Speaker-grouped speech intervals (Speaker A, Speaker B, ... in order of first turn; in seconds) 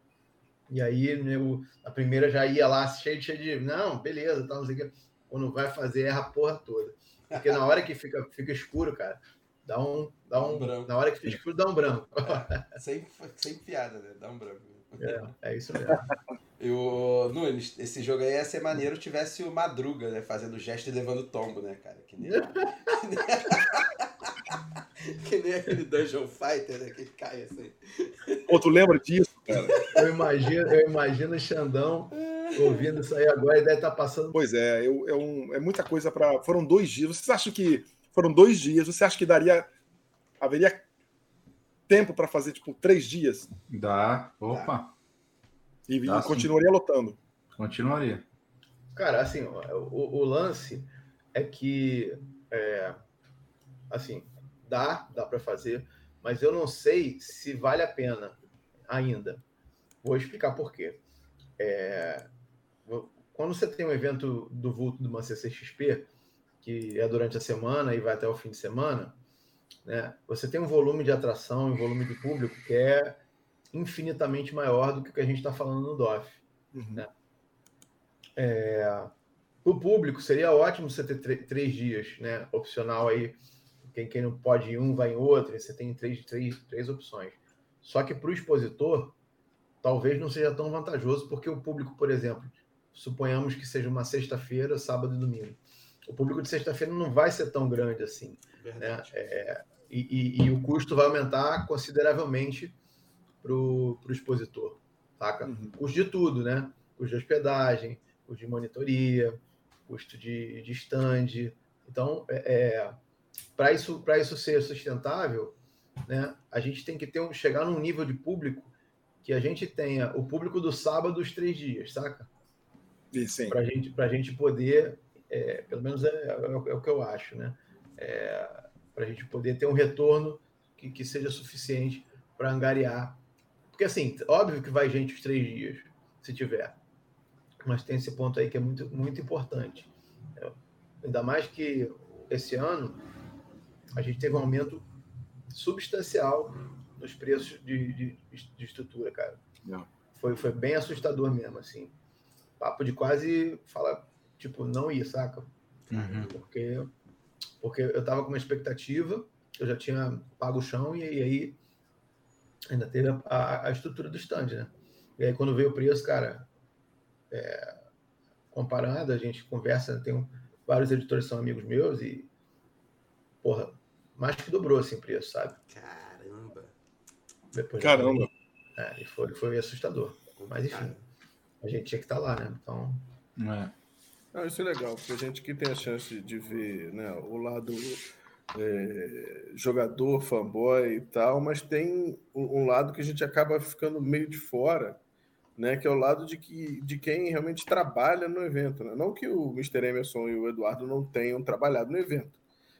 Speaker A: 0.7-12.7, 15.0-16.0, 29.9-34.4, 48.9-53.0, 53.9-59.4, 60.0-61.0, 61.6-62.3, 62.8-66.1, 66.6-69.2, 69.8-73.2, 73.7-77.1, 78.3-89.2, 89.8-102.8, 103.4-113.0, 113.6-122.3, 123.5-133.2, 133.7-136.8, 137.6-143.0, 143.9-144.8, 145.5-149.4, 150.1-151.9, 152.6-155.5, 156.2-156.9, 157.6-161.6, 162.7-166.5, 167.3-167.8, 168.5-172.3, 173.4-175.6, 177.5-180.9, 181.6-183.1
Speaker B: 10.3-10.9, 12.2-15.3, 16.6-28.5, 29.5-30.0, 32.1-32.8, 98.6-99.2, 155.9-156.4, 175.7-176.7, 180.3-181.1
Speaker C: 28.5-29.8, 34.3-39.7, 40.4-40.8, 41.9-43.5, 45.9-47.2, 76.7-77.0, 105.4-105.7, 123.1-123.6, 177.8-178.3
Speaker D: 43.7-44.9, 46.0-46.5, 47.6-48.2, 155.9-156.3, 183.4-183.7
Speaker E: 184.3-195.0, 195.6-202.4